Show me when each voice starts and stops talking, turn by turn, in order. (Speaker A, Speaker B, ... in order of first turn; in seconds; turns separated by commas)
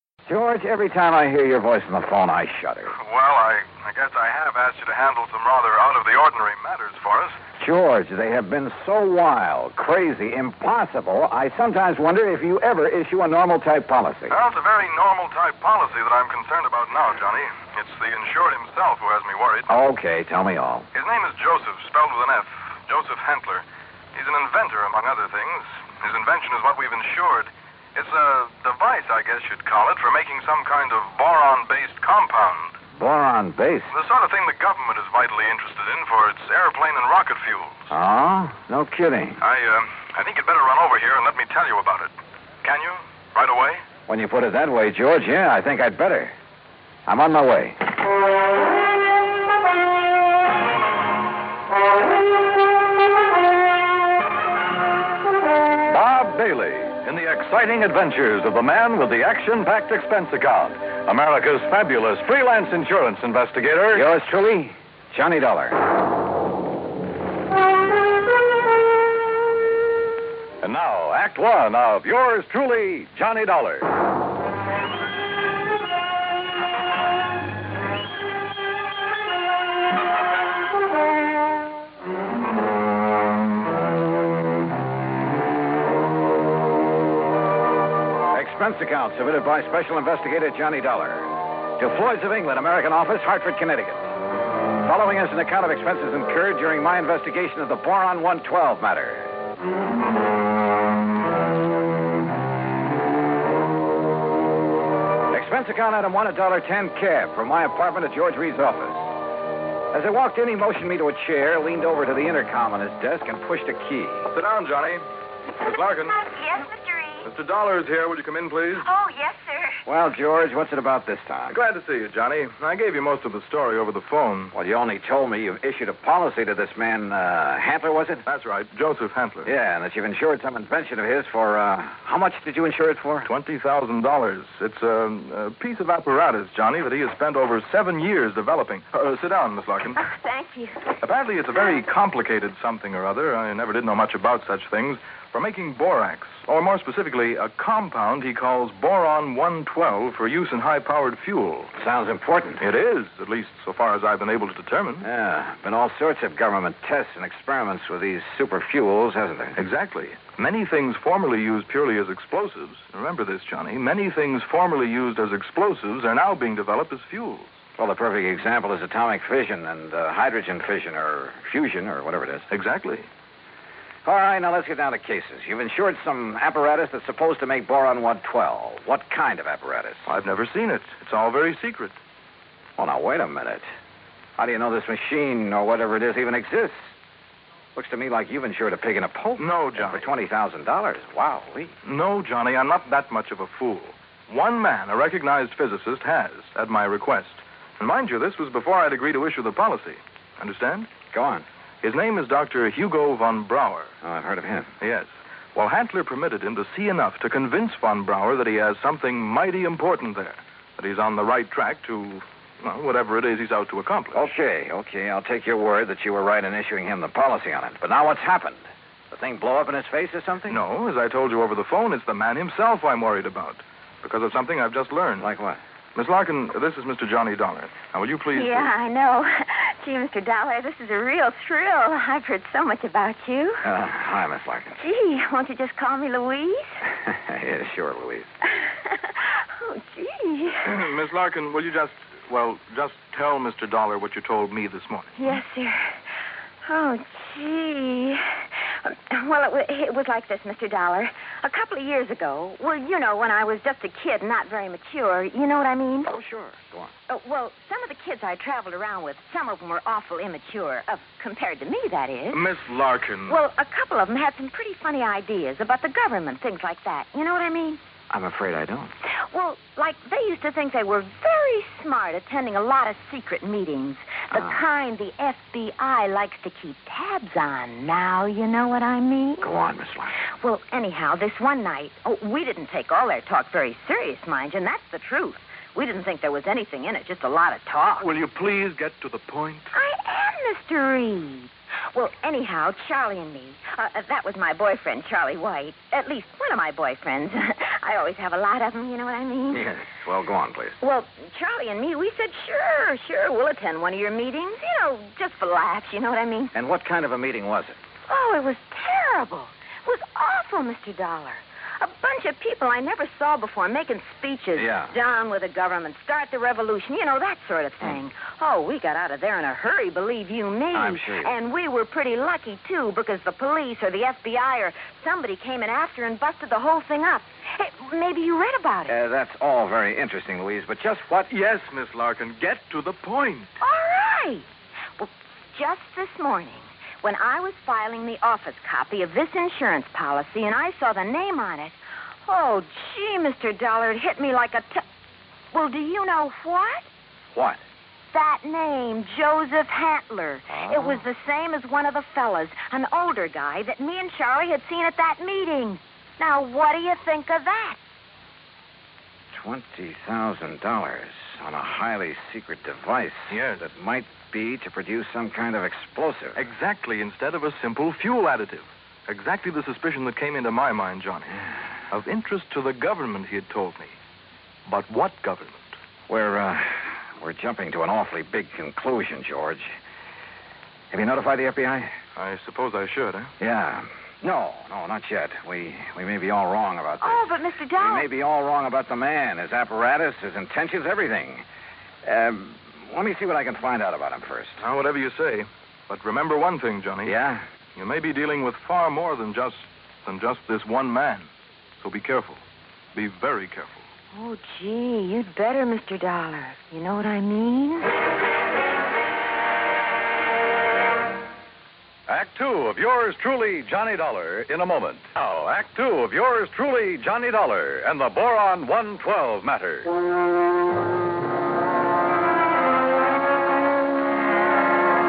Speaker A: 0.2-2.9, Speaker B: 2.9-7.4, Speaker A: 7.6-14.3, Speaker B: 14.3-19.7, Speaker A: 19.7-20.9, Speaker B: 20.9-32.8, Speaker A: 32.9-33.9, Speaker B: 33.9-37.9, Speaker A: 37.9-39.4, Speaker B: 39.4-42.1, Speaker B: 42.6-43.8, Speaker A: 44.1-46.3, Speaker A: 47.0-47.9, Speaker C: 55.9-64.0, Speaker A: 63.9-65.8, Speaker C: 70.6-73.9, Speaker A: 88.3-94.1, Speaker A: 94.8-99.3, Speaker A: 105.3-109.1, Speaker A: 109.9-114.3, Speaker B: 114.3-115.0, Speaker B: 115.6-116.2, Speaker D: 116.3-117.3, Speaker B: 117.2-118.9, Speaker D: 118.8-119.8, Speaker A: 119.9-121.6, Speaker B: 121.5-124.5, Speaker A: 124.5-128.2, Speaker B: 128.2-129.5, Speaker A: 129.4-133.3, Speaker B: 133.2-140.0, Speaker D: 140.0-140.8, Speaker B: 141.0-151.7, Speaker A: 151.8-152.6, Speaker B: 152.6-155.1, Speaker A: 155.0-159.6, Speaker B: 159.6-167.6, Speaker A: 167.8-172.5, Speaker B: 172.5-173.1, Speaker A: 174.1-180.1, Speaker B: 180.1-182.0, Speaker A: 182.8-183.7, Speaker A: 184.4-186.9, Speaker A: 187.8-191.8, Speaker B: 189.4-190.1, Speaker B: 191.8-200.9, Speaker A: 201.1-201.4, Speaker B: 201.8-203.9, Speaker A: 204.0-204.7, Speaker B: 204.8-214.3, Speaker A: 214.1-220.6, Speaker B: 220.5-225.3, Speaker A: 225.2-225.6, Speaker B: 226.0-228.7, Speaker D: 228.3-233.6, Speaker A: 233.6-234.8, Speaker D: 234.8-236.7, Speaker A: 237.0-238.3, Speaker D: 238.8-240.8, Speaker B: 240.7-245.1, Speaker D: 245.2-246.0, Speaker D: 246.6-256.1, Speaker A: 256.0-256.9, Speaker D: 257.1-262.4, Speaker B: 262.3-263.4, Speaker D: 263.3-267.8, Speaker A: 268.1-268.9, Speaker D: 269.3-279.5, Speaker A: 274.3-274.6, Speaker A: 279.4-280.2, Speaker D: 280.4-288.1, Speaker B: 288.0-289.7, Speaker D: 289.7-299.7, Speaker A: 299.5-300.8, Speaker D: 300.8-306.5, Speaker A: 306.5-307.8, Speaker D: 308.1-329.0, Speaker A: 314.6-314.9, Speaker A: 320.7-321.3, Speaker A: 328.9-331.3, Speaker B: 331.3-333.6, Speaker D: 333.6-334.5, Speaker D: 335.0-344.8, Speaker D: 345.5-346.9, Speaker A: 347.4-347.6, Speaker D: 348.1-357.8, Speaker A: 350.5-351.1, Speaker A: 359.3-366.4, Speaker B: 363.3-363.6, Speaker B: 366.4-373.9, Speaker B: 374.7-375.8, Speaker A: 376.1-379.8, Speaker A: 380.9-381.9, Speaker B: 382.2-383.3, Speaker A: 383.4-391.4, Speaker D: 387.0-388.1, Speaker A: 392.0-394.6, Speaker B: 394.6-397.1, Speaker A: 397.0-397.4, Speaker B: 397.8-401.3, Speaker B: 401.8-402.4, Speaker B: 402.9-403.8, Speaker D: 404.1-407.9, Speaker C: 412.1-419.9